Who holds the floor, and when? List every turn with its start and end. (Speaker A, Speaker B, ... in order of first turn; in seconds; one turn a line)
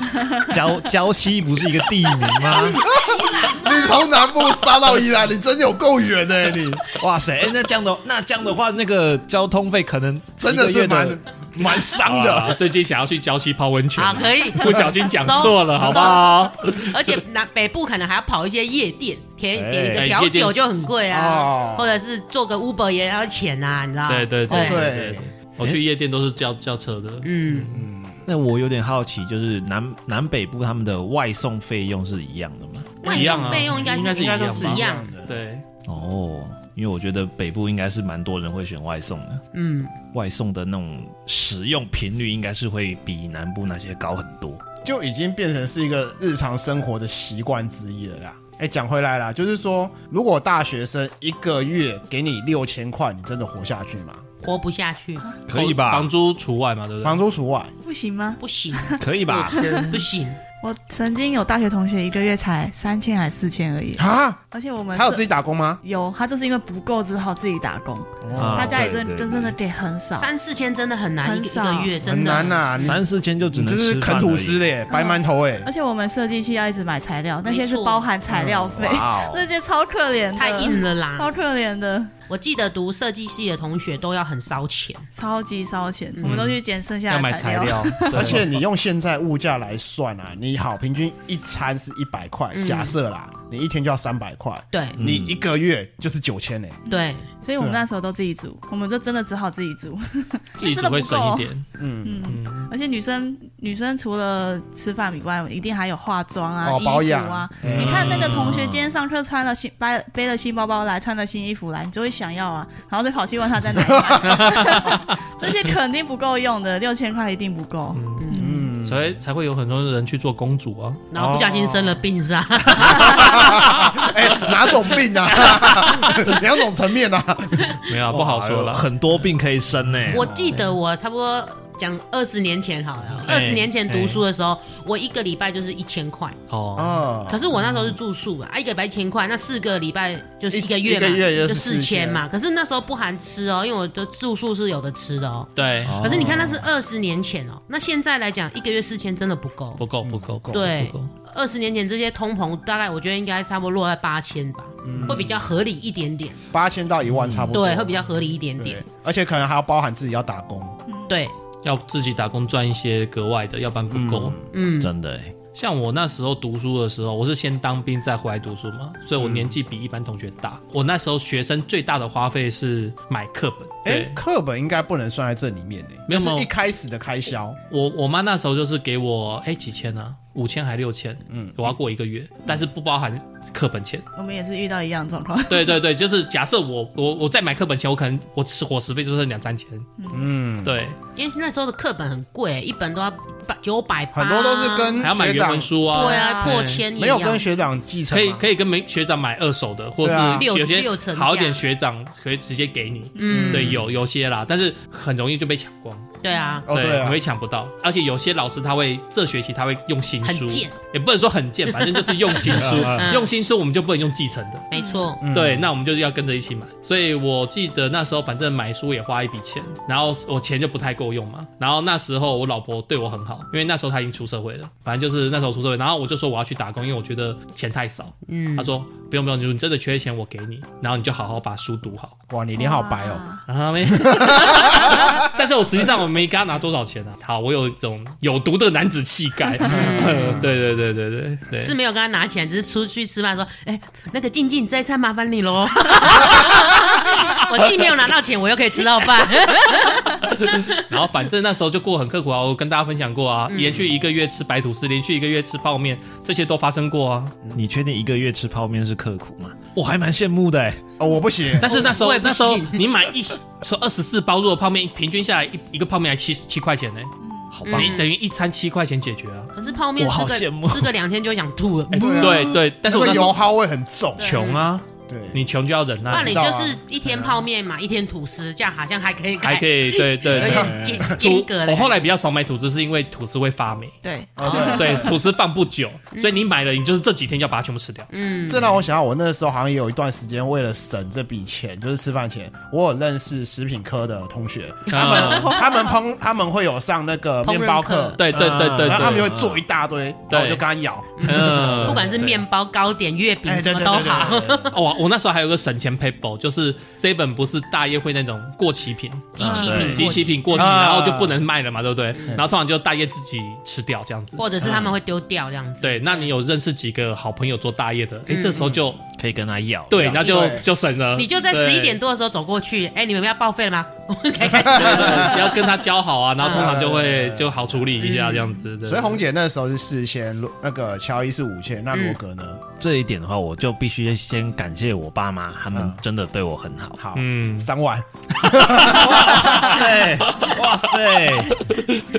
Speaker A: 0.5-2.9
Speaker B: 2.8-6.8
Speaker A: 6.9-11.2
Speaker B: 10.4-12.6
Speaker C: 11.9-17.1
Speaker D: 14.0-24.9
Speaker B: 15.8-16.4
Speaker A: 19.5-20.1
Speaker C: 19.9-20.6
Speaker B: 21.1-22.0
Speaker C: 24.1-27.8
Speaker B: 24.5-25.3
Speaker D: 27.2-27.7
Speaker B: 27.7-28.2
Speaker A: 28.3-33.0
Speaker B: 33.0-35.4
Speaker D: 33.0-35.1
Speaker C: 33.0-35.6
Speaker A: 35.9-39.4
Speaker D: 39.5-40.0
Speaker A: 40.1-44.6
Speaker B: 44.8-54.2
Speaker D: 54.4-55.3
Speaker A: 55.5-56.1
Speaker C: 55.5-57.2
Speaker B: 57.0-57.7
Speaker E: 57.8-59.0
Speaker D: 58.4-60.4
Speaker A: 59.0-59.7
Speaker E: 59.5-60.1
Speaker E: 60.6-65.2
Speaker B: 64.0-64.4
Speaker B: 64.9-65.8
Speaker E: 65.8-70.3
Speaker B: 68.2-68.8
Speaker A: 68.3-69.5
Speaker D: 70.2-73.0
Speaker E: 71.2-72.0
Speaker B: 72.0-75.7
Speaker A: 72.8-74.7
Speaker E: 74.9-82.1
Speaker D: 77.5-78.1
Speaker B: 78.3-78.9
Speaker A: 78.7-79.5
Speaker D: 80.3-81.3
Speaker D: 82.3-85.1
Speaker E: 85.1-88.4
Speaker D: 86.1-86.4
Speaker C: 86.2-88.5
Speaker B: 88.1-96.8
Speaker D: 92.5-93.0
Speaker D: 94.7-95.0
Speaker A: 95.0-95.4
Speaker D: 96.9-97.3
Speaker E: 96.9-101.5
Speaker B: 97.6-97.8
Speaker C: 100.6-101.7
Speaker B: 101.8-102.2
Speaker E: 102.0-118.7
Speaker C: 102.2-102.7
Speaker B: 106.6-108.7
Speaker A: 107.7-108.6
Speaker C: 107.7-108.7
Speaker B: 113.8-114.7
Speaker C: 114.3-115.0
Speaker C: 117.9-118.3
Speaker D: 118.2-118.5
Speaker B: 118.4-119.2
Speaker C: 118.8-121.0
Speaker D: 121.1-123.5
Speaker B: 121.2-122.0
Speaker B: 122.7-127.8
Speaker C: 123.2-124.4
Speaker C: 125.4-126.4
Speaker C: 127.9-128.9
Speaker A: 128.1-130.3
Speaker D: 130.1-136.4
Speaker C: 130.1-130.8
Speaker B: 130.2-130.5
Speaker C: 133.2-134.2
Speaker C: 136.5-137.1
Speaker B: 136.8-137.5
Speaker D: 137.3-149.8
Speaker B: 140.5-142.2
Speaker C: 145.6-146.0
Speaker A: 145.8-146.6
Speaker B: 146.2-146.6
Speaker C: 149.8-151.1
Speaker B: 150.0-150.8
Speaker D: 150.5-156.4
Speaker B: 154.8-155.5
Speaker B: 156.5-160.8
Speaker A: 157.1-157.6
Speaker D: 157.5-158.8
Speaker D: 161.1-161.3
Speaker C: 161.6-164.4
Speaker B: 163.9-164.4
Speaker D: 164.5-164.9
Speaker A: 164.8-165.3
Speaker C: 165.6-174.2
Speaker B: 169.2-169.6
Speaker B: 173.8-177.6
Speaker C: 176.1-176.5
Speaker C: 177.7-184.1
Speaker B: 181.3-181.8
Speaker E: 184.2-185.8
Speaker C: 185.5-189.9
Speaker E: 190.0-190.3
Speaker B: 190.1-190.8
Speaker C: 190.6-191.0
Speaker D: 191.2-195.0
Speaker B: 194.1-195.7
Speaker C: 195.0-196.8
Speaker D: 195.9-197.5
Speaker E: 195.9-196.6
Speaker B: 196.9-198.5
Speaker C: 198.1-206.1
Speaker B: 200.0-200.5
Speaker D: 200.4-201.6
Speaker D: 203.2-203.8
Speaker E: 203.2-203.5
Speaker B: 203.3-203.8
Speaker D: 206.2-206.7
Speaker E: 206.3-206.6
Speaker B: 206.7-207.2
Speaker C: 206.7-214.7
Speaker D: 210.2-210.8
Speaker D: 211.8-213.3
Speaker A: 212.6-213.0
Speaker B: 212.7-212.9
Speaker D: 214.7-215.2
Speaker E: 214.8-215.1
Speaker B: 215.2-215.7
Speaker C: 215.3-232.2
Speaker D: 228.3-228.8
Speaker B: 232.3-233.2
Speaker E: 232.6-233.4
Speaker C: 233.5-241.8
Speaker B: 233.9-235.3
Speaker B: 239.6-240.5
Speaker D: 239.7-240.4
Speaker D: 241.5-250.7
Speaker C: 249.8-257.4
Speaker D: 253.5-253.8
Speaker A: 257.6-260.9
Speaker B: 261.0-261.9
Speaker C: 261.6-269.5
Speaker D: 261.6-262.8
Speaker E: 267.2-268.0
Speaker D: 267.7-268.1
Speaker D: 269.5-272.3
Speaker A: 270.0-270.9
Speaker C: 271.9-273.4
Speaker B: 272.0-274.5
Speaker C: 274.2-276.4
Speaker E: 274.2-274.6
Speaker B: 275.1-275.4
Speaker B: 276.1-277.4
Speaker D: 276.1-281.9
Speaker C: 279.4-284.0
Speaker B: 280.3-281.2
Speaker E: 284.0-285.1
Speaker B: 284.4-285.1
Speaker C: 284.6-288.1
Speaker D: 286.1-286.4
Speaker D: 288.1-288.8
Speaker B: 288.5-298.2
Speaker C: 294.9-295.6
Speaker D: 294.9-295.6
Speaker E: 295.3-295.9
Speaker D: 297.4-298.2
Speaker C: 298.2-299.3
Speaker A: 298.3-299.6
Speaker B: 298.8-302.3
Speaker C: 300.3-300.6
Speaker D: 301.2-304.7
Speaker C: 301.2-302.4
Speaker B: 303.5-304.8
Speaker C: 304.7-314.5
Speaker A: 309.4-310.1
Speaker D: 309.4-310.7
Speaker E: 309.4-310.2
Speaker B: 309.9-311.4
Speaker D: 314.4-316.3
Speaker B: 314.6-314.9
Speaker C: 315.8-319.0
Speaker D: 318.3-318.8
Speaker B: 318.5-318.8
Speaker A: 319.2-320.5
Speaker C: 319.9-322.0
Speaker B: 319.9-320.6
Speaker D: 320.2-320.6
Speaker D: 321.2-325.6
Speaker C: 324.6-329.2
Speaker B: 325.0-325.3
Speaker D: 326.4-326.7
Speaker B: 326.5-328.1
Speaker D: 328.0-328.6
Speaker B: 328.8-332.6
Speaker A: 332.8-337.0
Speaker B: 335.7-336.0
Speaker B: 337.0-339.7
Speaker C: 337.2-337.7
Speaker C: 338.5-340.6
Speaker A: 339.0-341.6